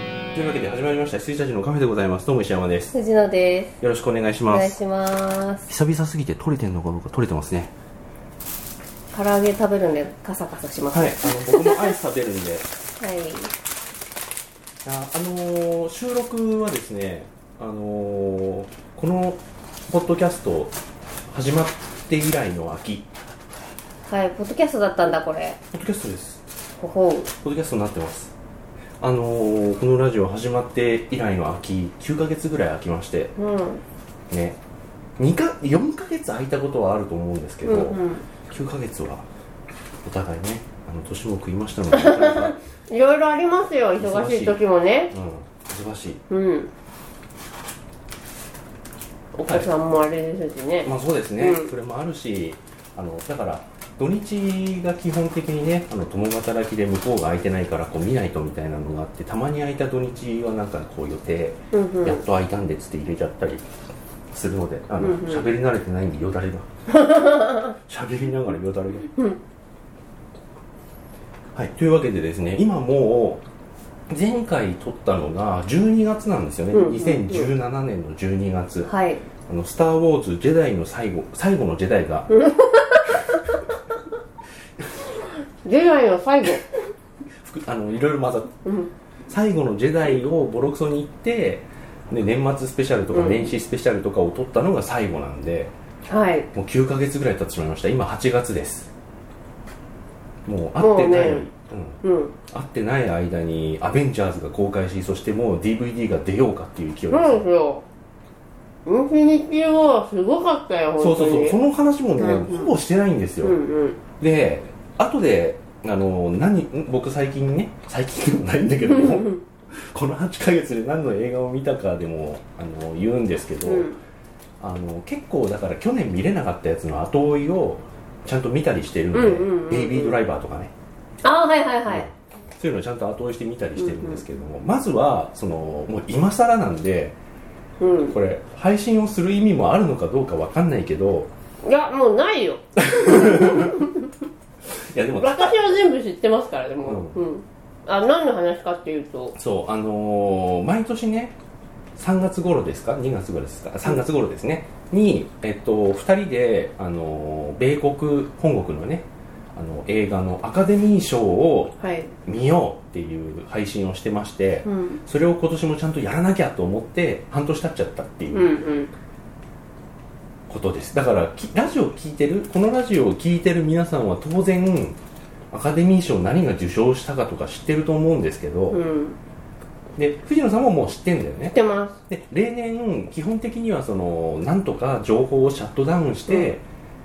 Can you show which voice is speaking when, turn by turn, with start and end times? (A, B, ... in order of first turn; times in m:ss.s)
0:00.3-0:02.9 A
0:02.9-0:03.8 B
0:03.8-0:04.8 A
0:04.5-0:05.7 B
0:05.7-0:07.7 A
0:09.1-0:11.9 B
0:10.9-0:12.7 A
0:13.0-0:13.5 B
0:14.8-0:20.7 A
0:21.3-0:23.1 A
0:24.1-0:25.6 B
0:25.7-0:26.4 A
0:26.8-0:27.3 B
0:27.4-0:28.3 A
0:29.0-0:33.3 A
0:33.4-0:33.8 B
0:34.3-0:34.6 A
0:35.2-0:39.3 A
0:37.6-0:38.2 B
0:40.0-0:42.6 A
0:41.9-0:45.1 B
0:44.0-0:46.2 A
0:46.3-0:46.7 B
0:49.3-0:51.7 B
0:49.4-0:49.7 A
0:50.8-1:03.6 A
1:01.7-1:02.2 B
1:04.3-1:09.1 A
1:05.0-1:05.5 B
1:06.9-1:07.7 B
1:11.5-1:13.4 A
1:14.1-1:18.9 A
1:16.7-1:17.5 B
1:18.8-1:19.2 B
1:19.5-1:22.3 A
1:22.3-1:23.2 B
1:25.6-1:26.7 B
1:27.4-1:28.5 A
1:28.6-1:28.9 B
1:29.3-1:35.7 A
1:33.1-1:33.5 B
1:36.1-1:36.5 B
1:36.5-1:38.9 A
1:40.4-1:47.4 A
1:40.8-1:41.5 B
1:42.0-1:42.3 B
1:47.1-1:47.8 B
1:48.8-1:51.6 B
1:51.0-1:53.6 A
1:52.2-1:52.7 B
1:53.4-1:54.0 B
1:54.2-2:03.9 A
2:03.6-2:04.0 B
2:04.6-2:10.7 A
2:09.1-2:10.2 B
2:11.2-2:12.1 B
2:11.9-2:17.2 A
2:13.8-2:14.2 B
2:17.8-2:18.2 B
2:18.1-2:21.3 A
2:21.6-2:24.1 B
2:22.8-2:23.8 A
2:24.7-2:25.7 A
2:25.2-2:29.4 B
2:26.8-2:27.2 A
2:29.3-2:31.4 A
2:32.0-2:48.5 A
2:41.8-2:42.1 B
2:44.6-2:45.0 B
2:48.3-2:48.9 B
2:50.5-2:55.0 A
2:55.5-2:58.8 A
2:58.7-2:59.2 B
3:00.0-3:01.6 A
3:01.5-3:01.9 B
3:02.1-3:06.6 A